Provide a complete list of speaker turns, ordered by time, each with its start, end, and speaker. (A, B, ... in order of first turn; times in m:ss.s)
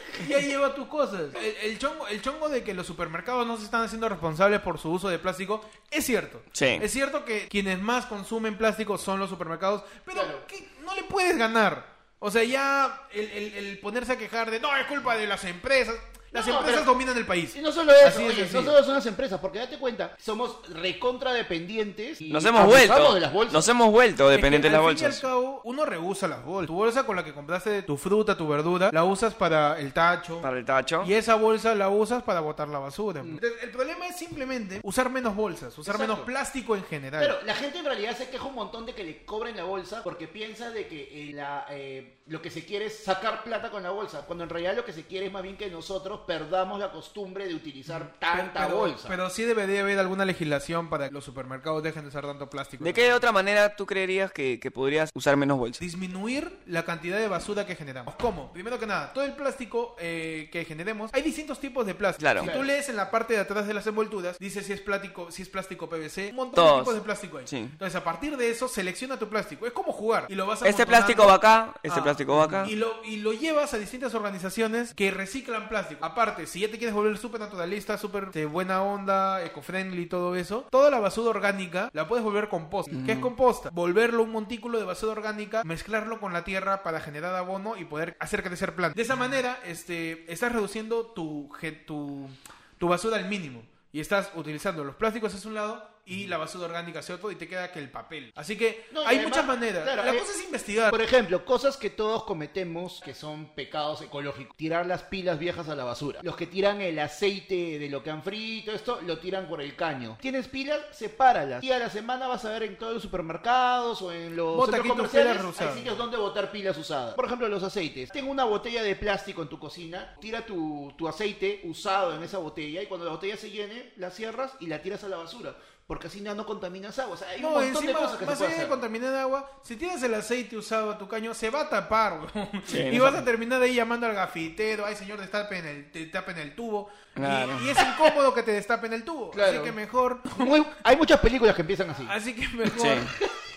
0:00.1-0:18.8 A
0:06.5-0:06.8 B
0:10.1-0:10.4 C
0:16.3-0:16.9 C
0:17.5-0:23.7 C
0:22.3-0:25.2 B
0:24.3-0:30.5 A
0:30.4-0:31.1 B
0:31.0-0:37.4 A
0:35.9-0:36.3 C
0:37.2-0:49.2 C
0:47.9-0:53.2 A
0:52.8-0:55.8 B
0:55.8-1:11.4 A
1:02.2-1:02.5 B
1:02.4-1:02.7 C
1:06.6-1:07.7 B
1:10.6-1:12.7 B
1:11.9-1:41.0 A
1:22.9-1:23.3 B
1:38.9-1:40.3 C
1:40.9-2:08.8 C
1:54.5-1:55.9 A
2:07.4-2:20.5 A
2:12.7-2:13.2 B
2:17.2-2:17.8 B
2:19.3-2:19.8 C
2:20.3-2:22.1 C
2:22.1-2:23.1 A
2:22.7-2:23.1 B